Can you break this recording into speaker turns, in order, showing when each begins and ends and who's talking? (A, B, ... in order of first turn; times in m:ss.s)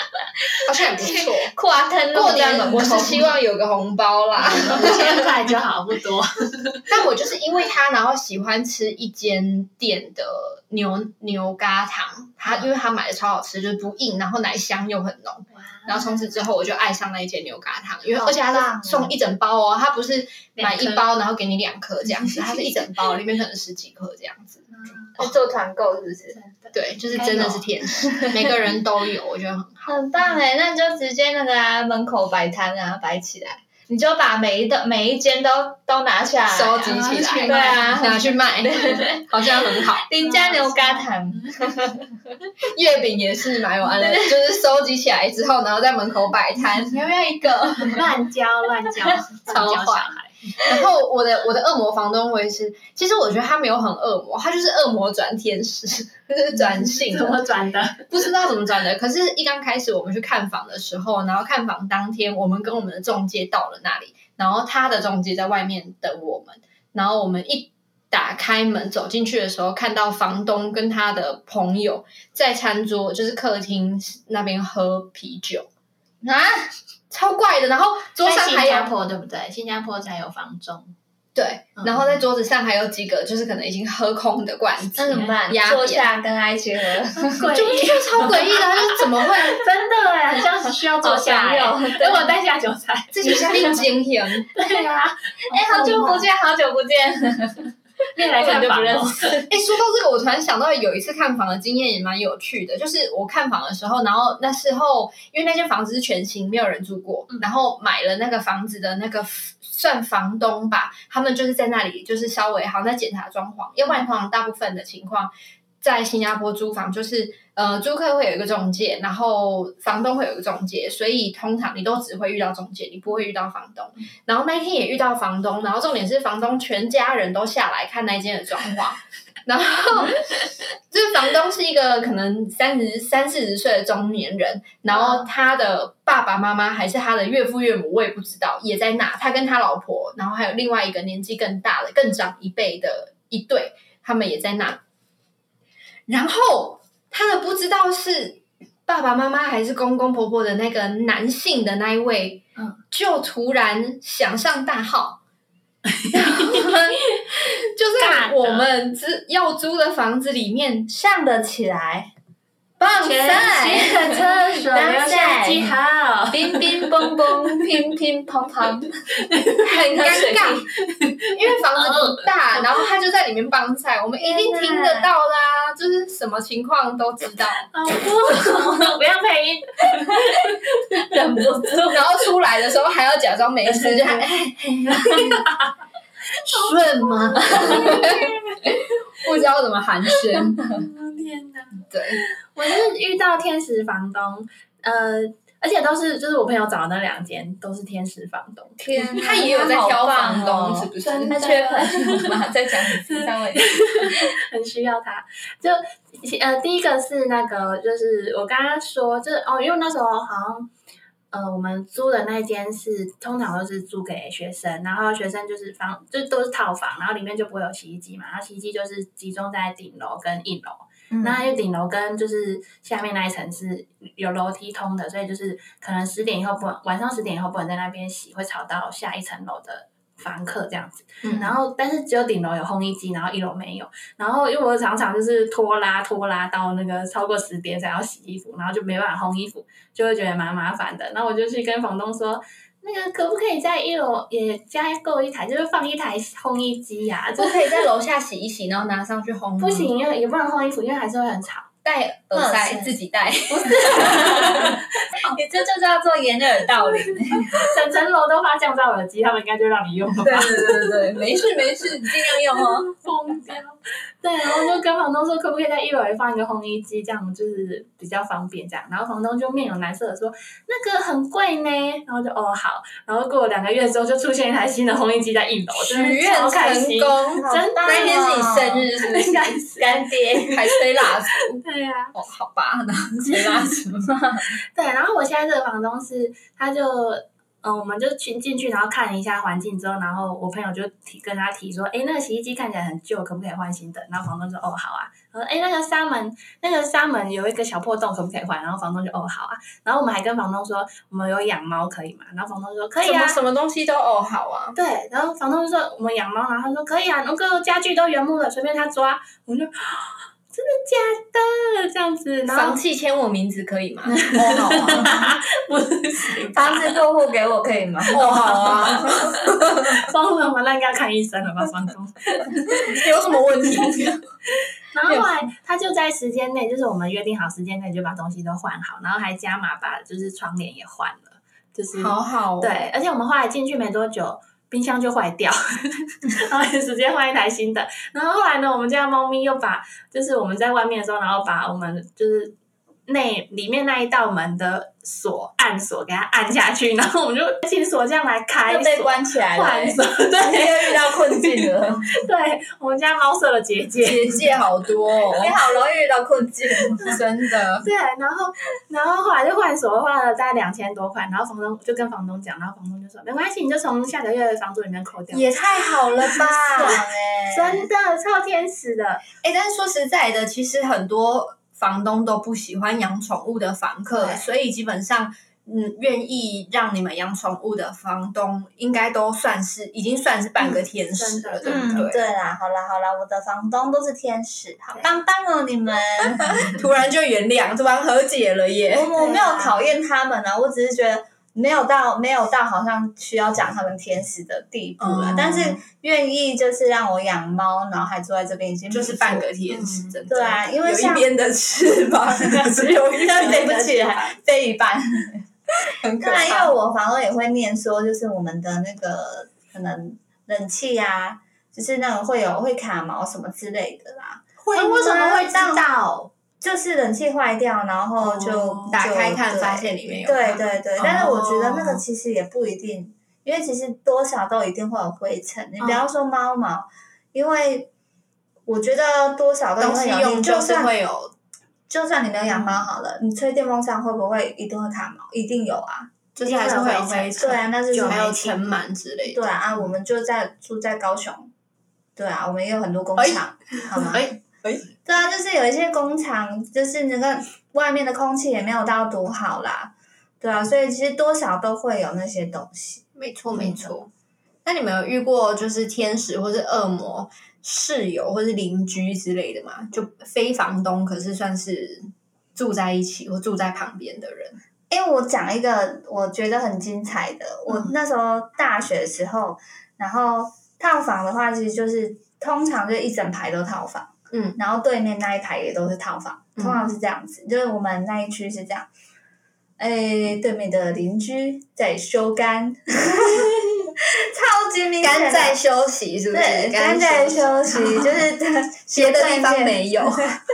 0:00.6-0:01.5 A
0:01.0-0:03.4 B
0:02.1-0:05.2 A
0:04.4-0:06.9 C
0:06.9-0:25.4 A
0:15.6-0:16.2 C
0:18.2-0:19.2 B
0:20.6-0:21.1 C
0:22.2-0:22.9 B
0:25.2-0:26.4 B
0:26.3-0:27.7 C
0:26.7-0:30.0 A
0:27.2-0:27.5 B
0:28.0-0:28.4 B
0:29.9-0:42.1 B
0:36.5-0:40.1 A
0:36.8-0:38.2 C
0:40.2-0:41.1 C
0:42.6-0:47.0 A
0:44.0-0:44.4 B
0:46.9-0:50.7 C
0:49.5-0:57.4 A
0:56.7-0:58.1 C
0:58.1-1:15.7 A
1:16.2-1:16.7 B
1:17.1-1:18.9 A
1:18.2-1:20.9 C
1:21.4-1:26.1 A
1:21.8-1:22.2 C
1:25.0-1:27.5 B
1:27.2-1:33.8 C
1:27.5-1:29.6 A
1:31.0-1:32.3 B
1:33.1-1:34.5 A
1:34.5-1:36.3 C
1:35.5-1:39.4 B
1:38.2-1:39.5 C
1:39.5-2:10.4 A
2:10.9-2:24.8 A
2:14.9-2:15.3 C
2:26.1-2:35.2 A
2:35.9-2:37.2 C
2:36.1-2:40.9 A
2:38.0-2:38.7 C
2:40.9-2:42.1 B
2:42.8-2:44.0 A
2:42.9-2:45.8 B
2:43.6-2:47.7 C
2:46.3-2:49.2 B
2:49.2-2:52.8 C
2:49.6-2:50.7 A
2:50.1-2:50.5 B
2:51.3-2:57.7 A
2:54.2-2:55.1 B
2:57.7-3:02.0 C
3:01.9-3:05.4 A
3:03.7-3:04.3 C
3:05.0-3:05.5 C
3:06.5-3:10.8 A
3:06.5-3:08.8 C
3:10.3-3:18.9 C
3:11.9-3:12.2 A
3:18.8-3:24.3 B
3:19.0-3:21.4 A
3:21.0-3:30.7 C
3:31.3-4:07.6 C
3:41.1-3:41.4 B
4:07.4-4:09.9 A
4:09.6-4:11.7 C
4:11.8-4:14.8 A
4:12.3-4:13.0 B
4:13.5-4:14.8 C
4:13.7-4:17.7 B
4:17.7-4:20.9 C
4:20.2-4:22.9 A
4:23.0-4:40.5 C
4:35.8-4:39.6 A
4:37.4-4:38.9 B
4:39.8-4:40.6 B
4:40.5-4:41.6 A
4:41.6-4:42.2 C
4:42.1-4:44.5 A
4:43.2-4:43.8 C
4:44.7-5:03.4 C
5:03.0-5:04.8 A
5:04.8-5:12.8 C
5:12.5-5:15.1 A
5:14.2-5:17.0 C
5:14.3-5:15.3 B
5:16.5-5:19.3 B
5:18.1-5:20.1 A
5:18.2-5:19.4 C
5:19.9-5:23.0 C
5:22.7-5:24.2 A
5:24.9-5:42.6 C
5:31.9-5:32.8 A
5:43.1-5:54.5 C
5:48.7-5:52.1 B
5:54.0-5:55.6 A
5:55.4-5:57.2 B
5:57.1-5:57.9 A
5:57.8-6:09.2 C
6:05.3-6:07.0 A
6:06.4-6:07.9 B
6:09.4-6:22.2 A
6:14.1-6:14.5 C
6:21.1-6:22.1 C
6:21.6-6:26.8 B
6:26.4-6:29.1 A
6:28.9-6:39.5 B
6:29.2-6:29.8 C
6:35.0-6:35.8 A
6:38.9-6:44.0 A
6:39.7-6:40.2 C
6:40.3-6:41.3 B
6:42.4-6:45.4 B
6:43.2-6:44.3 C
6:45.9-6:46.8 A
6:46.2-6:55.9 B
6:54.7-6:56.3 C
6:56.6-7:07.9 B
6:58.2-6:58.9 C
6:58.9-7:01.8 A
7:01.0-7:02.0 C
7:05.8-7:06.1 C
7:08.7-7:10.9 B
7:09.8-7:11.3 A
7:11.9-7:16.1 B
7:12.5-7:12.8 C
7:16.4-7:19.6 A
7:16.4-7:18.4 C
7:17.4-7:18.8 B
7:19.3-7:21.5 B
7:22.2-7:24.3 B
7:23.2-7:24.7 C
7:25.0-7:34.0 B
7:33.2-7:34.1 A
7:34.7-7:44.6 A
7:44.9-7:58.9 B
7:54.3-7:54.6 A
7:56.6-7:56.9 A
7:59.8-8:05.6 B
8:05.0-8:08.2 A
8:06.3-8:10.3 B
8:08.9-8:10.4 A